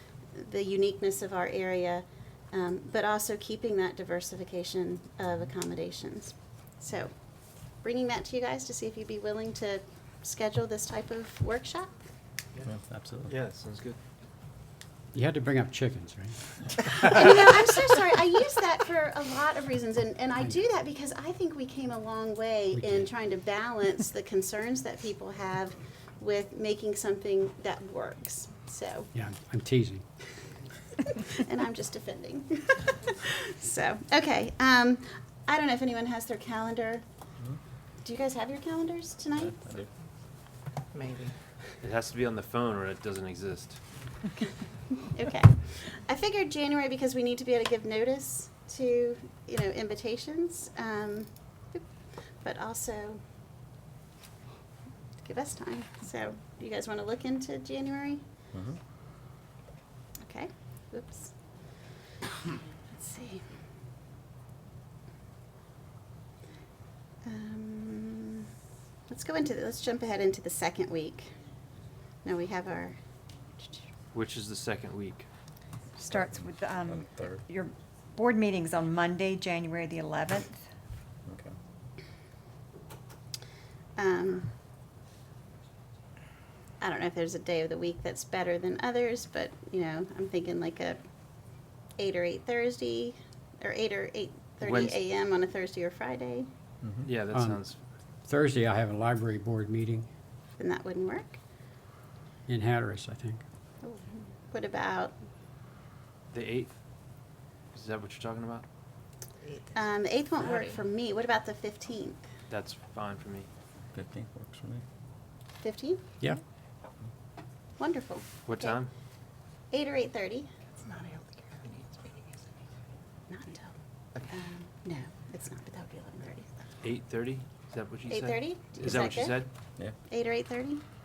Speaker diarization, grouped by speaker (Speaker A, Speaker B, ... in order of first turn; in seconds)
Speaker A: 0.3-7.1, 7.8-11.9, 17.1-29.1, 31.4-37.0, 38.0-39.7, 45.1-51.8, 52.4-53.2, 55.2-58.2, 60.2-61.3, 62.9-63.4, 67.2-68.5, 69.1-71.3, 72.2-73.0, 84.0-84.5, 86.8-91.0, 92.0-96.5, 100.6-101.4, 103.8-105.1, 109.7-112.2, 115.6-116.0, 117.8-118.8, 119.7-120.5, 123.3-123.7, 124.3-126.5, 128.1-129.4, 130.1-130.8
Speaker B: 12.6-13.3, 39.4-39.9, 58.5-58.8, 76.1-77.4, 81.2-81.6, 96.8-97.1, 113.9-114.8
Speaker C: 13.3-14.0, 40.9-43.8, 74.1-75.3, 94.6-95.0, 97.0-97.8, 106.3-106.8, 107.7-108.6, 112.5-113.5, 118.5-118.9, 126.8-129.5
Speaker D: 15.1-17.1, 22.7-23.1, 29.1-30.0, 97.3-97.7, 98.3-100.1, 102.5-103.4
Speaker E: 76.0-80.6